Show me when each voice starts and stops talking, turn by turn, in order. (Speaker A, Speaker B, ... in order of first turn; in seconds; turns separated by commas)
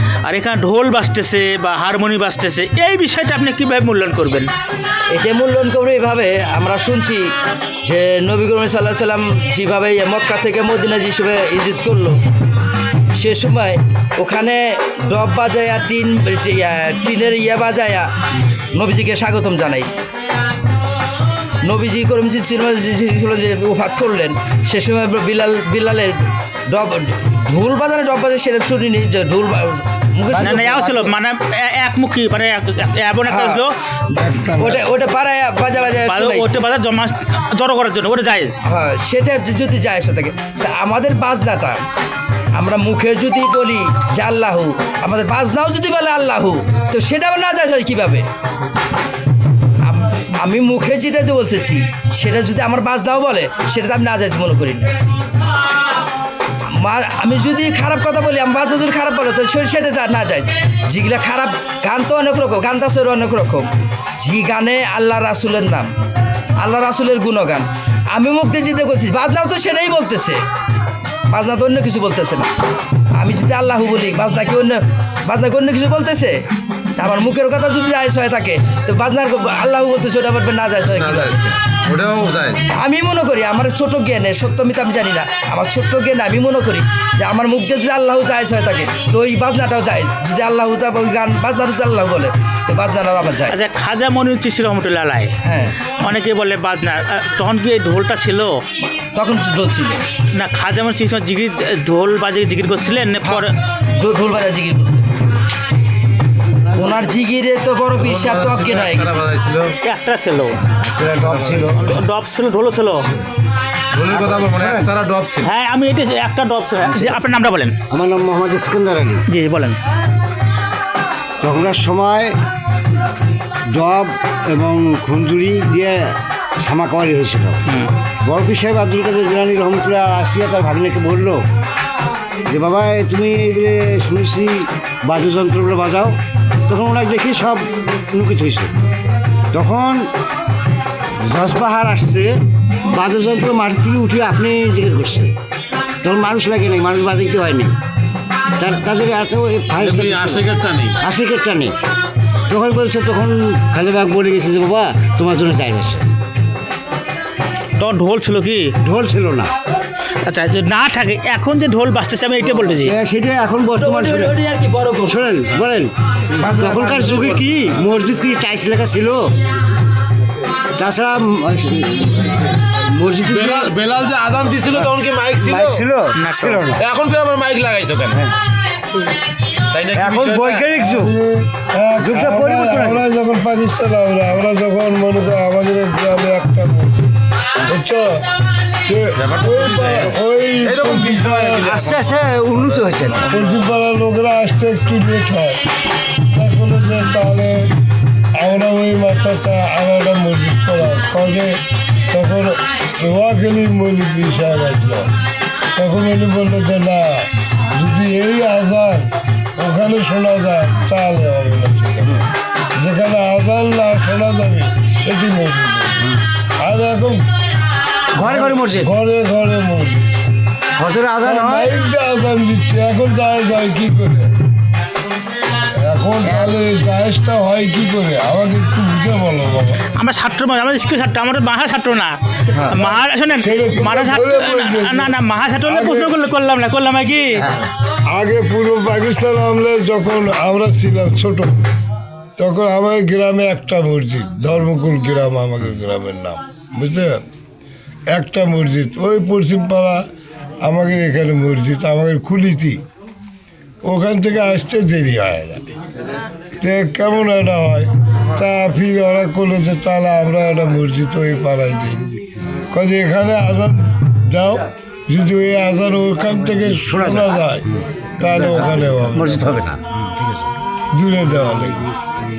Speaker A: 0.3-4.5, Speaker B: 5.1-7.3, Speaker B: 7.8-12.2, Speaker B: 13.2-18.1, Speaker B: 18.8-20.1, Speaker B: 21.6-26.2, Speaker B: 26.7-31.1, Speaker A: 30.4-33.7, Speaker B: 33.3-36.6, Speaker A: 36.0-38.6, Speaker B: 38.7-41.8, Speaker B: 42.5-48.2, Speaker B: 49.9-54.9, Speaker B: 56.7-63.7, Speaker B: 64.2-65.9, Speaker B: 66.6-70.4, Speaker B: 71.3-72.5, Speaker B: 73.2-76.3, Speaker B: 77.0-81.4, Speaker C: 80.9-82.6, Speaker B: 82.7-93.5, Speaker A: 93.5-95.3, Speaker B: 95.4-95.7, Speaker A: 96.0-98.6, Speaker B: 99.1-100.0, Speaker A: 100.3-103.5, Speaker B: 104.0-105.2, Speaker B: 106.7-109.2, Speaker C: 108.0-109.7, Speaker A: 109.8-110.6, Speaker D: 110.7-111.8, Speaker C: 111.1-111.8, Speaker A: 111.8-113.1, Speaker C: 113.9-115.5, Speaker D: 114.1-114.9, Speaker A: 115.4-117.7, Speaker D: 117.9-119.2, Speaker A: 119.3-119.8, Speaker D: 121.4-122.4, Speaker D: 123.7-127.6, Speaker A: 127.7-127.9, Speaker D: 128.2-131.4, Speaker D: 132.5-138.8, Speaker D: 139.5-140.1, Speaker D: 141.2-142.3, Speaker D: 142.9-145.3, Speaker D: 146.0-147.8, Speaker D: 148.6-150.5, Speaker C: 149.8-151.0, Speaker D: 151.0-151.8, Speaker D: 152.5-156.1, Speaker A: 157.8-158.7, Speaker D: 158.8-159.5, Speaker A: 160.2-163.0, Speaker D: 162.5-164.4, Speaker B: 163.8-165.2, Speaker D: 165.1-169.3, Speaker C: 166.3-167.8, Speaker D: 170.8-172.4, Speaker D: 172.9-173.7, Speaker C: 173.2-175.9, Speaker D: 175.4-176.8, Speaker A: 176.2-176.6, Speaker C: 176.7-178.3, Speaker C: 179.7-180.7, Speaker D: 179.9-181.1, Speaker E: 180.8-188.2, Speaker D: 182.0-183.0, Speaker E: 188.8-191.8, Speaker C: 189.2-192.1, Speaker D: 191.7-193.2, Speaker C: 192.8-193.3, Speaker E: 193.3-195.6, Speaker E: 196.3-197.7, Speaker E: 198.4-201.6, Speaker E: 202.1-205.1, Speaker E: 205.8-217.3, Speaker E: 218.2-220.1, Speaker D: 218.2-218.9, Speaker D: 220.8-221.7, Speaker E: 221.2-224.3, Speaker E: 225.7-229.8, Speaker A: 229.9-232.2, Speaker E: 232.6-236.2, Speaker A: 232.7-237.4, Speaker E: 238.1-241.6, Speaker E: 242.4-247.2, Speaker E: 248.1-250.0, Speaker E: 250.6-252.8, Speaker E: 253.8-255.6, Speaker E: 256.6-262.1, Speaker E: 262.7-267.7, Speaker D: 266.9-267.3, Speaker E: 268.2-269.6, Speaker D: 268.2-270.5, Speaker E: 270.9-271.9